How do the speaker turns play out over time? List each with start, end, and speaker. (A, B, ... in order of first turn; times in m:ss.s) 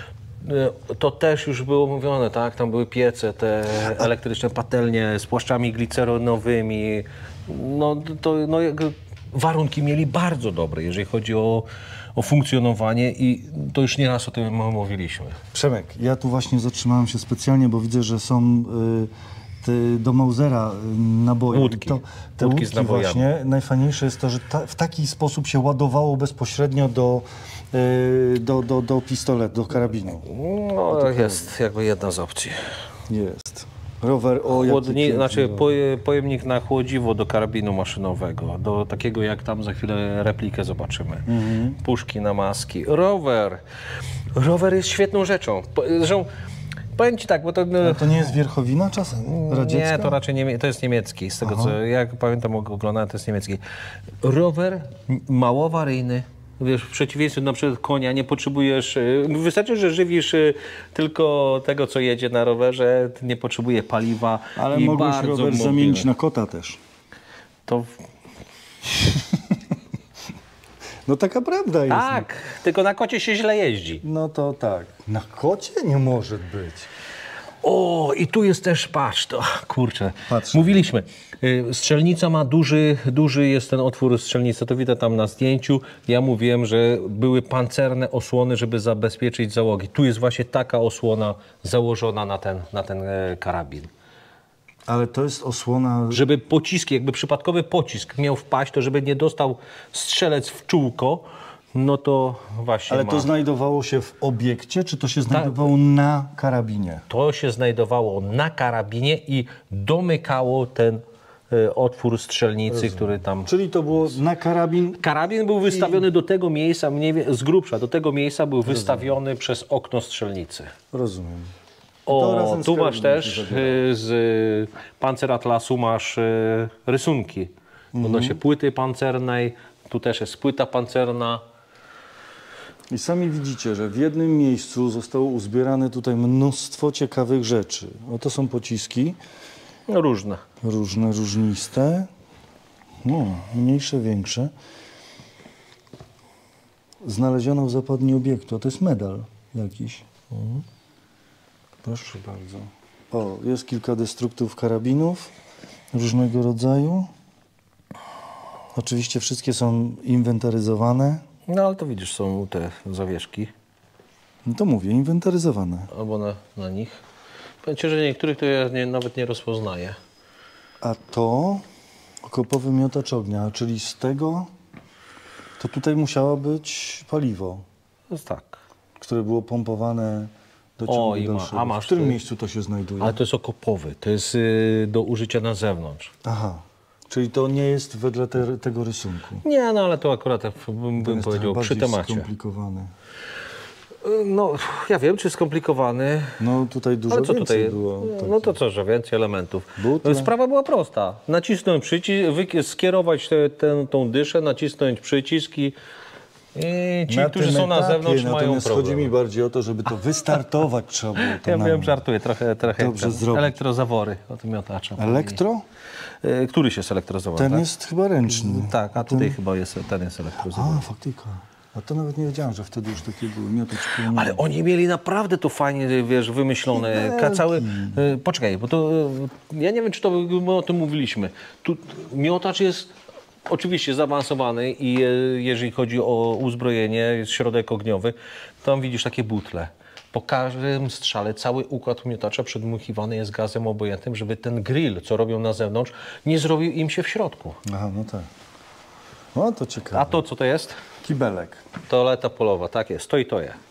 0:00.4-0:15.4 A
0:15.5-0:19.1 B
0:19.6-0:30.3 B
0:21.5-0:23.2 A
0:30.2-0:32.6 A
0:30.9-0:31.5 B
0:33.1-0:35.8 B
0:34.5-0:43.6 A
0:41.3-0:41.8 B
0:44.4-0:46.3 A
0:47.0-0:48.3 A
0:47.8-0:50.2 B
0:49.2-0:53.6 A
0:51.4-0:51.8 B
0:54.2-1:06.1 A
1:04.6-1:06.8 B
1:07.6-1:07.9 A
1:11.0-1:12.2 B
1:11.9-1:14.0 A
1:14.0-1:16.9 B
1:17.6-1:33.9 A
1:20.3-1:20.8 B
1:34.9-1:36.2 B
1:36.1-1:43.3 A
1:42.9-1:47.0 B
1:45.3-1:45.6 A
1:47.1-1:53.5 A
1:52.7-1:55.0 B
1:55.0-2:00.7 A
1:55.7-1:56.1 B
1:58.6-1:59.1 B
2:00.9-2:01.5 B
2:02.0-2:11.4 A
2:02.1-2:03.8 B
2:07.9-2:08.4 B
2:12.9-2:19.2 B
2:19.9-2:20.4 A
2:20.6-2:22.1 B
2:23.0-2:24.5 B
2:27.0-2:30.6 B
2:31.8-2:35.3 B
2:35.9-2:37.1 B
2:38.7-2:41.2 B
2:41.5-2:43.5 A
2:44.4-2:45.9 B
2:45.9-2:47.0 A
2:47.6-2:50.0 A
2:50.8-2:51.6 B
2:52.2-2:54.5 B
2:55.6-2:57.6 B
2:58.1-2:58.6 A
2:59.0-3:03.2 B
3:00.9-3:02.2 A
3:03.0-3:06.1 A
3:06.2-3:09.4 B
3:09.4-3:12.3 A
3:11.0-3:12.9 B
3:14.0-3:16.4 A
3:16.4-3:18.6 B
3:17.1-3:25.7 A
3:19.8-3:20.3 B
3:26.5-3:29.1 A
3:27.1-3:32.0 B
3:31.2-3:35.4 A
3:32.7-3:33.6 B
3:35.0-3:35.6 B
3:36.2-3:37.6 A
3:37.4-3:39.4 B
3:38.3-3:40.9 A
3:40.4-3:44.4 B
3:43.9-3:52.9 A
3:46.7-3:48.0 B
3:53.5-4:07.6 A
4:07.6-4:08.3 B
4:09.3-4:10.2 B
4:09.9-4:10.8 A
4:11.0-4:11.6 B
4:11.9-4:13.6 A